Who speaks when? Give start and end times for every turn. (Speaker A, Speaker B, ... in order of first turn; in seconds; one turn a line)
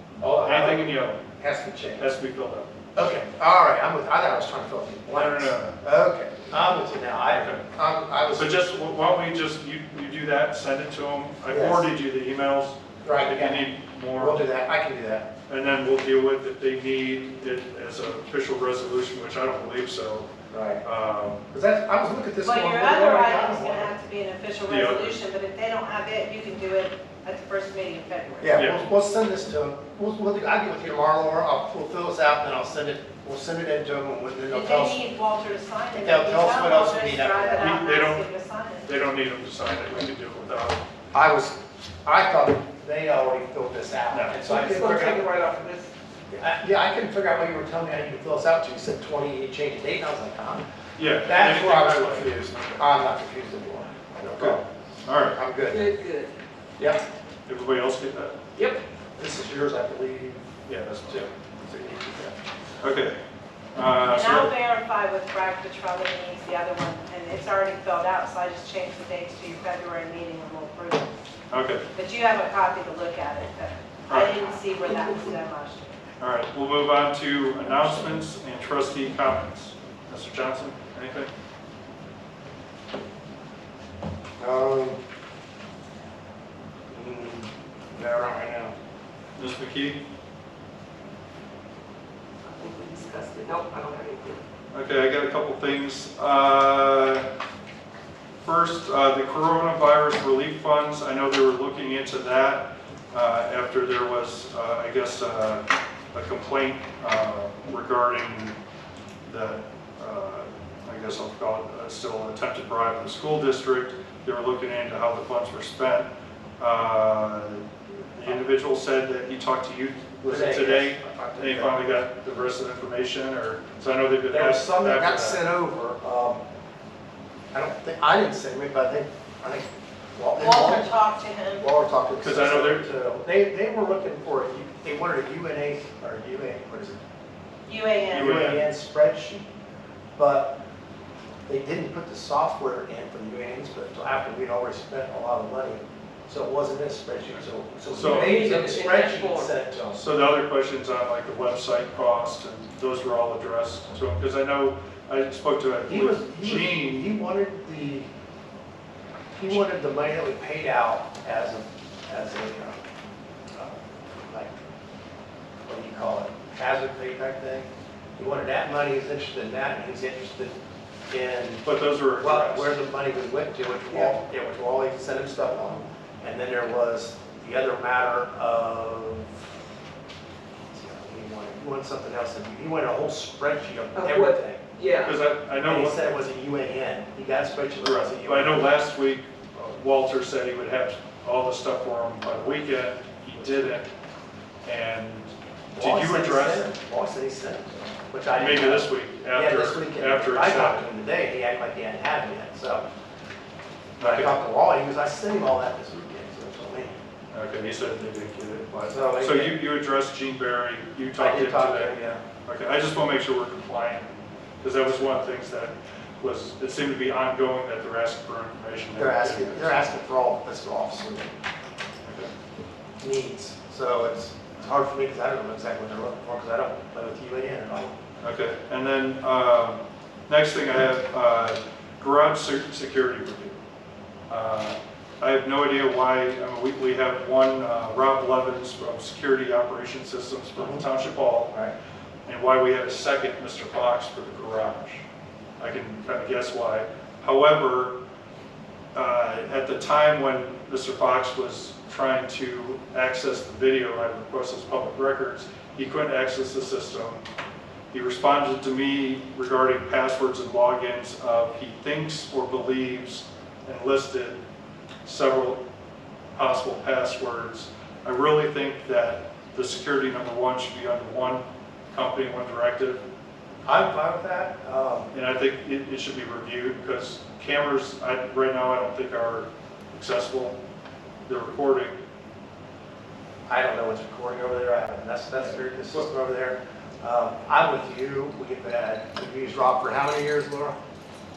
Speaker A: 0.2-2.1
Speaker B: 0.4-1.2
Speaker B: 2.0-3.1
Speaker A: 3.0-8.5
Speaker B: 5.1-5.8
Speaker B: 7.3-7.6
Speaker B: 8.3-14.4
Speaker A: 11.5-11.8
Speaker A: 13.0-15.3
Speaker B: 15.5-20.3
Speaker A: 20.5-20.8
Speaker B: 20.8-21.4
Speaker A: 21.5-23.9
Speaker C: 22.4-28.6
Speaker B: 24.6-25.2
Speaker A: 28.4-35.0
Speaker B: 28.5-28.8
Speaker C: 34.5-38.9
Speaker A: 35.9-37.7
Speaker B: 37.6-38.2
Speaker B: 38.9-40.8
Speaker A: 41.1-45.5
Speaker B: 44.1-44.4
Speaker D: 44.4-45.9
Speaker A: 46.3-50.6
Speaker B: 51.0-52.8
Speaker A: 51.2-54.6
Speaker B: 54.2-55.4
Speaker A: 55.3-55.9
Speaker D: 55.7-56.3
Speaker A: 56.8-57.0
Speaker B: 57.5-58.4
Speaker D: 58.5-58.8
Speaker A: 59.2-62.3
Speaker B: 60.6-61.3
Speaker B: 62.8-63.1
Speaker B: 63.7-64.5
Speaker C: 64.0-71.1
Speaker B: 71.5-71.8
Speaker C: 71.9-75.8
Speaker B: 74.1-74.6
Speaker B: 76.2-81.3
Speaker A: 77.6-78.0
Speaker A: 84.4-85.0
Speaker A: 86.9-88.7
Speaker B: 89.4-90.0
Speaker D: 92.4-94.4
Speaker B: 94.7-97.3
Speaker B: 98.4-108.6
Speaker B: 109.3-125.5
Speaker A: 120.2-122.0
Speaker A: 124.3-126.4
Speaker A: 127.5-130.9
Speaker C: 130.4-131.6
Speaker A: 131.6-137.0
Speaker B: 132.2-132.8
Speaker C: 137.7-138.4
Speaker B: 138.1-138.7
Speaker A: 138.1-139.5
Speaker A: 140.2-140.5
Speaker A: 141.5-150.0
Speaker B: 147.9-148.5
Speaker D: 147.9-149.5
Speaker B: 149.9-157.1
Speaker A: 155.9-158.1
Speaker A: 159.3-162.8
Speaker A: 164.3-164.5
Speaker A: 165.7-170.5
Speaker A: 171.1-171.7
Speaker B: 171.6-172.7
Speaker A: 172.2-179.3
Speaker A: 180.7-184.7
Speaker D: 183.9-185.1
Speaker B: 185.0-186.0
Speaker A: 185.6-188.7
Speaker B: 187.8-193.9
Speaker B: 194.6-196.7
Speaker A: 195.7-202.8
Speaker B: 198.3-200.8
Speaker B: 204.0-204.3
Speaker A: 204.0-207.0
Speaker B: 207.3-219.8
Speaker A: 208.9-209.6
Speaker A: 211.2-212.2
Speaker A: 218.9-221.3
Speaker B: 222.0-222.3
Speaker A: 223.0-227.9
Speaker B: 228.2-233.6
Speaker B: 234.3-241.5
Speaker A: 240.6-240.9
Speaker B: 242.2-245.0
Speaker B: 245.6-247.9
Speaker B: 248.9-257.2
Speaker B: 257.9-264.4
Speaker B: 265.0-265.6
Speaker B: 266.3-273.0
Speaker A: 273.6-275.1
Speaker B: 275.1-280.6
Speaker B: 281.3-281.9
Speaker A: 283.5-290.8
Speaker B: 285.4-286.1